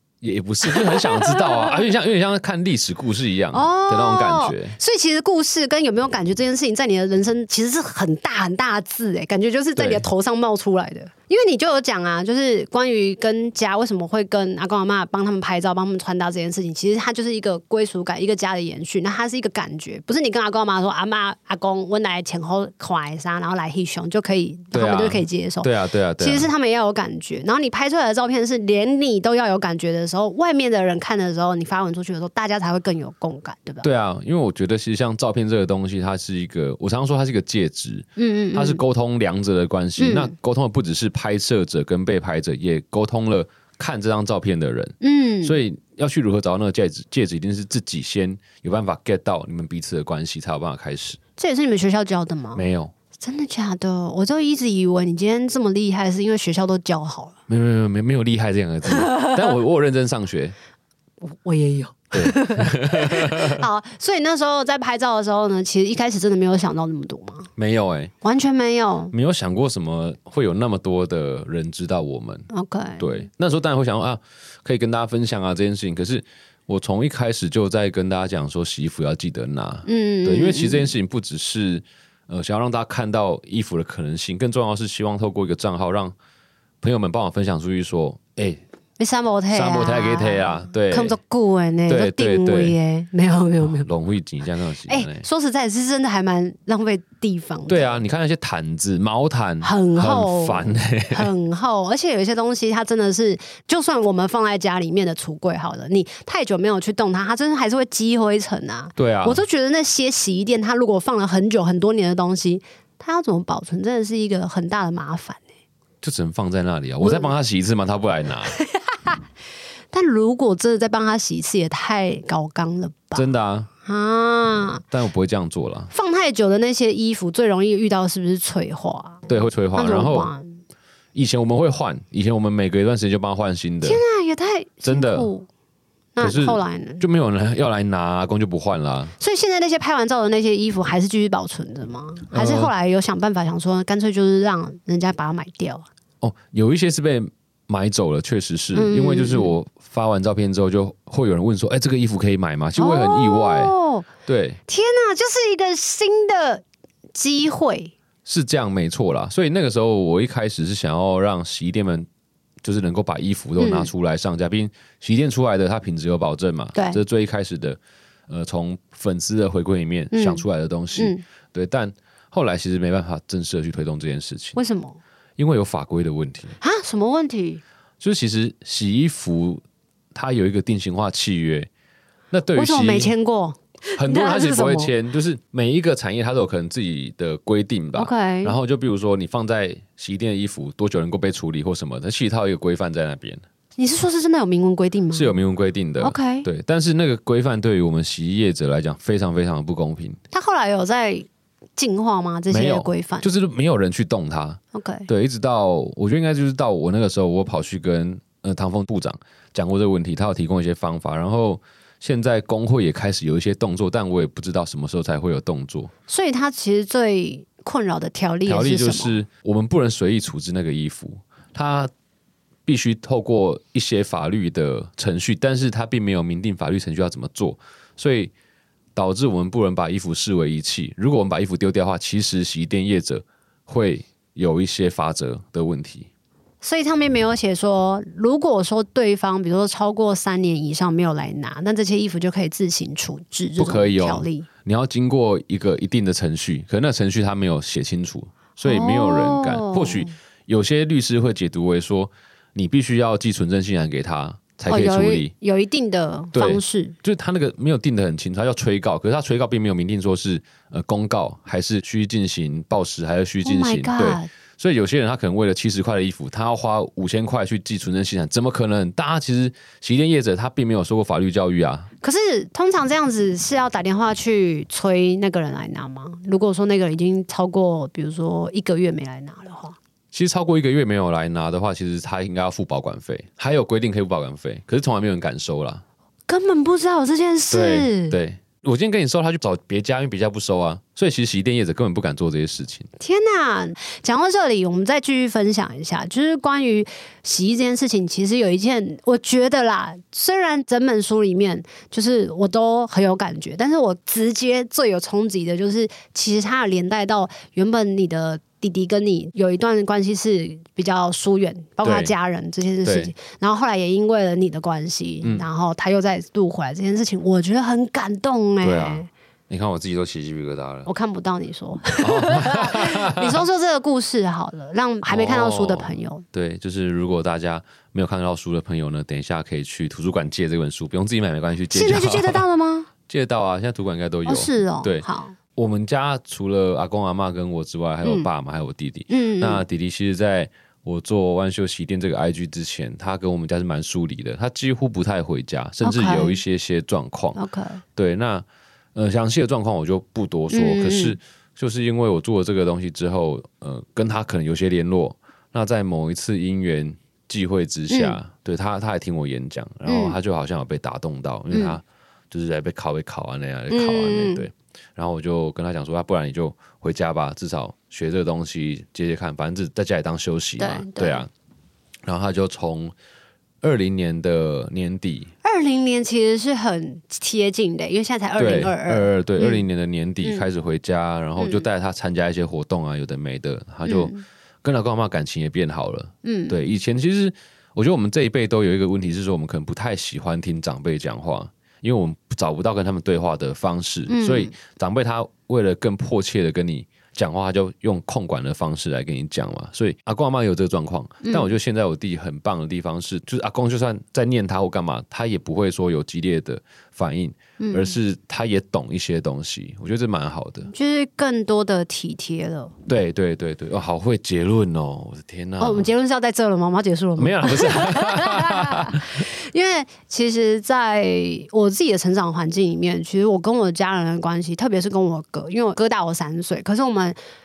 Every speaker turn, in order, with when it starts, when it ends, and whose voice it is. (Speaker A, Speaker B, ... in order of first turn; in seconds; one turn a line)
Speaker A: 0.2-4.8
Speaker B: 0.6-1.9
Speaker B: 3.5-33.9
Speaker A: 9.8-10.0
Speaker A: 24.7-26.5
Speaker A: 33.8-51.2
Speaker B: 38.2-38.8
Speaker B: 40.0-40.3
Speaker B: 45.0-45.6
Speaker B: 51.4-52.6
Speaker A: 52.5-52.9
Speaker B: 53.2-57.4
Speaker A: 57.5-60.5
Speaker B: 59.0-59.4
Speaker B: 61.2-67.5
Speaker A: 62.1-63.6
Speaker A: 67.5-68.1
Speaker B: 68.2-69.1
Speaker A: 69.1-72.5
Speaker B: 72.5-73.2
Speaker A: 73.0-86.1
Speaker B: 79.9-80.9
Speaker A: 86.8-88.6
Speaker B: 89.0-93.9
Speaker A: 89.5-91.2
Speaker A: 91.9-92.8
Speaker A: 93.6-95.3
Speaker B: 94.9-98.0
Speaker A: 97.7-101.3
Speaker B: 99.6-115.4
Speaker A: 109.0-109.4
Speaker A: 116.0-118.5
Speaker B: 117.0-117.3
Speaker B: 118.6-119.2
Speaker B: 119.9-123.2
Speaker A: 123.1-123.7
Speaker B: 123.8-124.8
Speaker A: 124.9-125.9
Speaker B: 125.9-130.6
Speaker A: 129.3-130.3
Speaker A: 131.1-134.0
Speaker B: 133.8-135.5
Speaker A: 134.8-135.3
Speaker B: 136.1-137.0
Speaker A: 136.2-139.1
Speaker B: 139.2-145.9
Speaker A: 142.3-142.7
Speaker A: 146.2-153.7
Speaker B: 148.7-149.5
Speaker B: 152.8-154.1
Speaker A: 154.2-154.6
Speaker B: 154.7-157.9
Speaker A: 158.2-162.1
Speaker A: 162.6-174.6
Speaker B: 163.6-163.9
Speaker B: 166.7-167.0
Speaker B: 170.1-170.4
Speaker B: 170.9-171.2
Speaker B: 174.5-175.0
Speaker A: 175.4-176.6
Speaker B: 176.6-177.6
Speaker A: 178.0-179.6
Speaker A: 180.1-181.7
Speaker A: 182.3-183.1
Speaker B: 182.5-184.9
Speaker A: 184.0-193.4
Speaker B: 187.9-188.6
Speaker B: 193.8-195.4
Speaker A: 195.1-200.2
Speaker B: 196.0-196.5
Speaker B: 200.3-203.3
Speaker A: 202.5-215.9
Speaker B: 204.7-205.1
Speaker B: 216.1-219.2
Speaker A: 218.5-221.9
Speaker A: 222.7-228.3
Speaker A: 228.9-236.1
Speaker B: 236.6-244.5
Speaker A: 243.6-255.3
Speaker B: 248.6-250.1
Speaker B: 254.7-257.0
Speaker A: 256.3-271.9
Speaker B: 263.4-264.3
Speaker B: 272.0-279.8
Speaker A: 280.1-285.8
Speaker B: 286.3-288.1
Speaker A: 287.5-292.9
Speaker B: 293.0-319.1
Speaker A: 311.8-312.1
Speaker A: 312.9-313.1
Speaker A: 318.6-320.9
Speaker B: 320.9-326.2
Speaker A: 322.0-323.4
Speaker A: 325.0-332.4
Speaker B: 331.7-332.9
Speaker A: 333.1-347.4
Speaker B: 334.2-335.4
Speaker B: 339.1-339.6
Speaker B: 345.8-346.4
Speaker B: 347.4-347.8
Speaker A: 347.9-371.3
Speaker B: 350.5-351.2
Speaker B: 357.9-358.2
Speaker B: 359.9-360.1
Speaker B: 361.5-361.8
Speaker B: 363.7-364.5
Speaker B: 370.6-371.2
Speaker A: 372.1-372.9
Speaker A: 373.6-375.3
Speaker B: 375.4-379.6
Speaker A: 378.4-410.7
Speaker B: 381.4-381.7
Speaker B: 383.9-384.2
Speaker B: 386.2-386.7
Speaker B: 394.1-394.6
Speaker B: 401.2-401.5
Speaker B: 407.6-407.9
Speaker B: 410.7-412.7
Speaker A: 412.9-415.9
Speaker B: 415.6-427.2
Speaker A: 417.2-419.2